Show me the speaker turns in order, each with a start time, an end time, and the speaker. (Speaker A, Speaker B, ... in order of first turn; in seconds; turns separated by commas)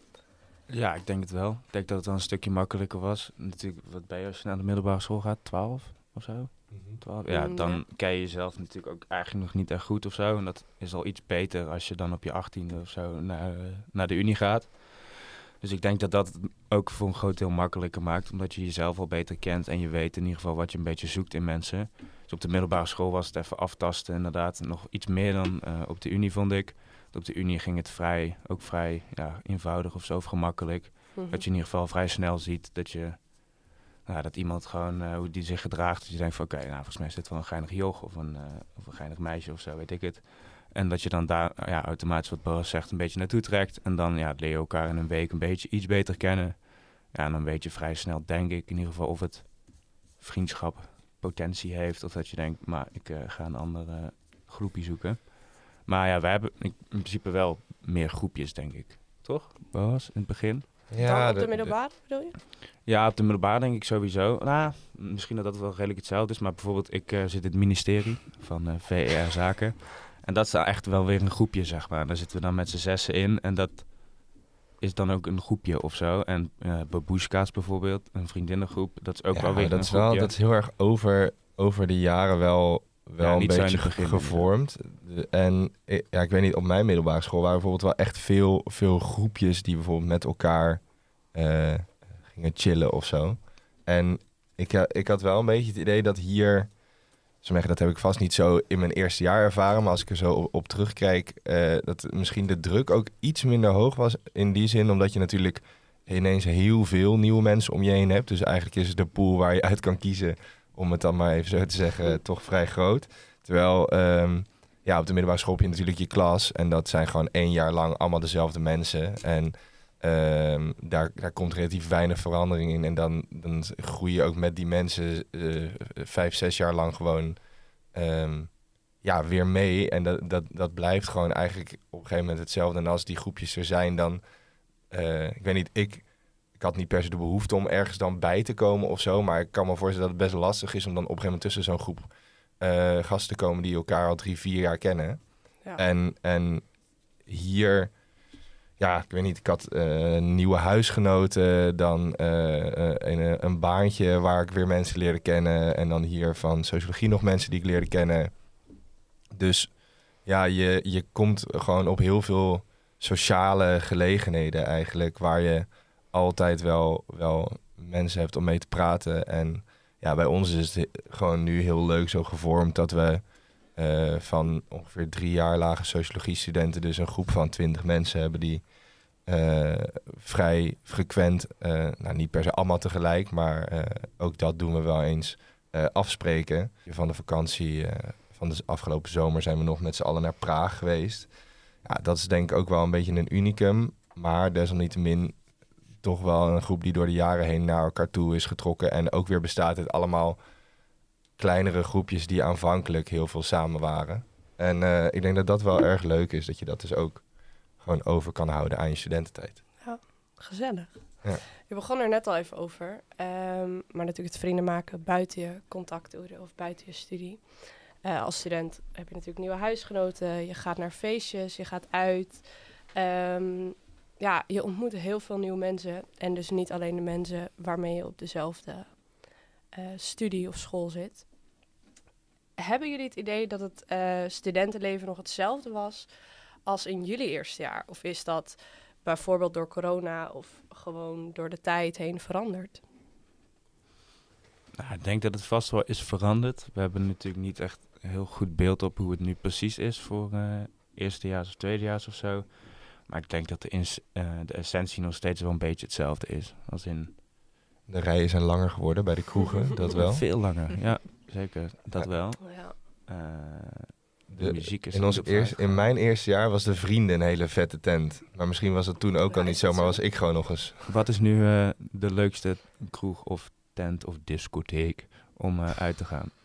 Speaker A: 0.7-60.7, Speaker B: 6.7-7.0, Speaker C: 7.3-7.8, Speaker C: 31.1-31.4, Speaker B: 60.9-61.8, Speaker C: 61.0-62.4, Speaker A: 62.8-80.3, Speaker B: 79.3-96.8, Speaker A: 83.2-84.5, Speaker B: 97.4-134.2, Speaker B: 134.9-148.0, Speaker B: 148.8-158.4, Speaker B: 159.3-195.5, Speaker B: 196.0-200.4, Speaker B: 201.4-209.7, Speaker C: 209.8-231.3, Speaker C: 232.6-242.8, Speaker A: 244.8-257.1, Speaker B: 257.9-260.3, Speaker A: 259.9-265.9, Speaker C: 262.4-262.8, Speaker B: 264.3-270.8, Speaker C: 269.3-270.2, Speaker A: 270.9-276.3